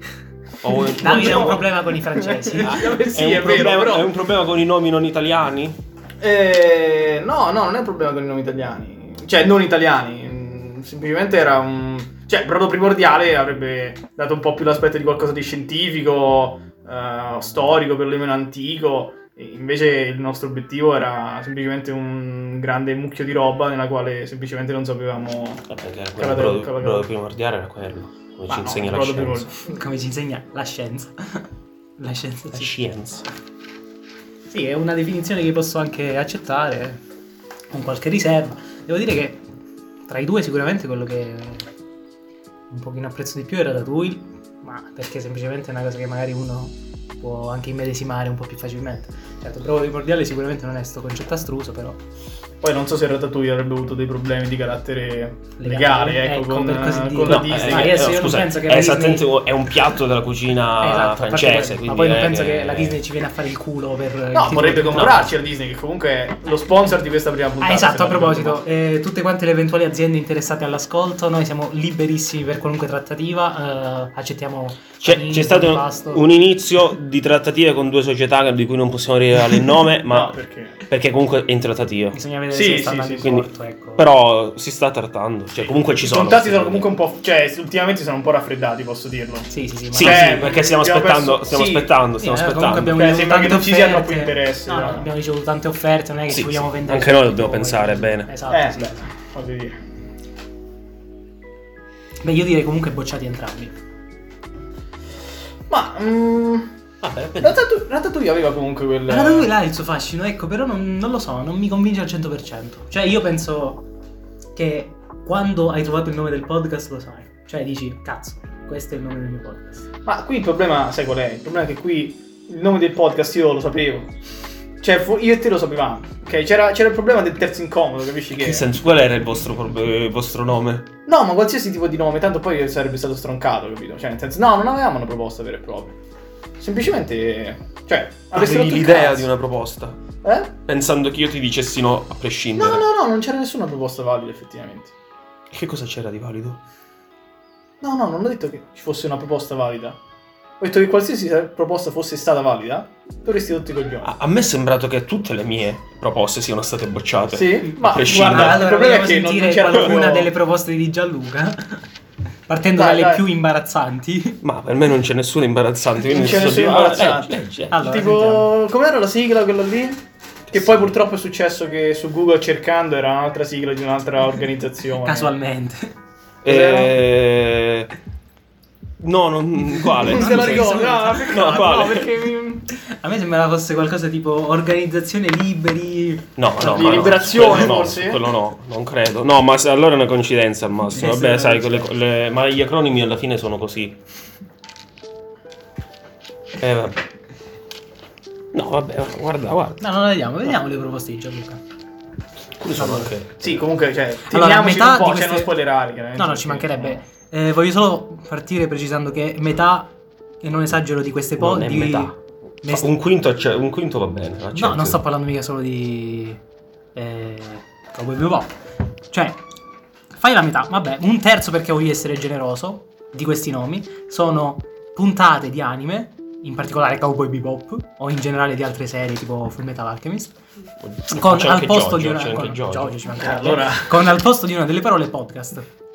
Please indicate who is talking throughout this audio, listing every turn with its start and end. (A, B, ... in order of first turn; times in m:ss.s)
0:00.6-0:01.6 A
0:00.9-0:04.1 B
0:01.0-0:03.7 C
0:02.6-0:05.8 A
0:06.2-0:27.1 B
0:25.7-0:29.5 A
0:28.5-0:29.6 B
0:29.6-0:31.5 C
0:32.0-0:32.7 C
0:32.5-0:33.3 A
0:34.5-0:37.0 C
0:37.7-0:39.4 C
0:40.1-0:41.7 C
0:42.7-0:52.0 C
0:52.6-0:58.0 B
0:55.6-0:59.3 C
0:57.2-1:03.0 A
1:00.8-1:05.3 C
1:04.3-1:08.6 B
1:04.9-1:05.3 A
1:07.6-1:16.3 C
1:15.0-1:22.2 A
1:20.1-1:20.8 B
1:22.1-1:24.0 C
1:22.5-1:23.4 B
1:23.2-1:26.9 A
1:25.6-1:32.0 B
1:29.5-1:30.6 C
1:29.9-1:33.0 A
1:32.2-1:39.0 C
1:32.8-1:35.1 B
1:36.3-1:38.3 A
1:38.5-1:39.8 B
1:42.2-1:43.8 C
1:45.7-1:46.7 B
1:47.0-1:47.6 A
1:47.4-1:49.5 B
1:49.1-1:53.8 C
1:54.6-1:59.9 C
2:00.0-2:04.1 B
2:04.8-2:08.7 B
2:08.3-2:10.9 A
2:11.1-2:16.0 B
2:16.6-2:19.3 B
2:18.3-2:20.0 A
2:20.2-2:20.5 B
2:20.7-2:22.9 A
2:22.6-2:24.9 B
2:25.5-2:26.6 A
2:27.8-2:30.0 B
2:30.6-2:34.1 B
2:34.0-2:38.7 A
2:37.3-2:40.3 B
2:38.1-2:41.9 C
2:42.5-2:44.4 C
2:42.8-2:43.2 B
2:44.4-2:47.8 A
2:46.1-2:55.4 B
2:47.7-2:48.5 C
2:50.5-2:51.0 A
2:55.0-2:56.0 C
2:56.4-2:57.9 A
2:56.4-2:57.0 B
2:59.0-3:02.1 A
2:59.9-3:01.2 C
3:00.0-3:02.7 B
3:02.7-3:06.3 C
3:06.4-3:14.0 A
3:06.6-3:08.3 B
3:10.9-3:11.9 C
3:16.6-3:17.0 A
3:18.5-3:19.8 A
3:19.8-3:21.6 C
3:22.6-3:23.6 A
3:22.8-3:23.1 C
3:23.4-3:27.0 B
3:24.3-3:25.5 C
3:26.2-3:29.9 C
3:30.4-3:32.9 C
3:31.4-3:35.0 A
3:34.6-3:36.4 C
3:37.0-3:38.5 C
3:39.1-3:39.4 C
3:40.2-3:50.4 C
3:50.8-3:53.0 A
3:51.1-3:55.7 C
3:53.1-3:54.1 B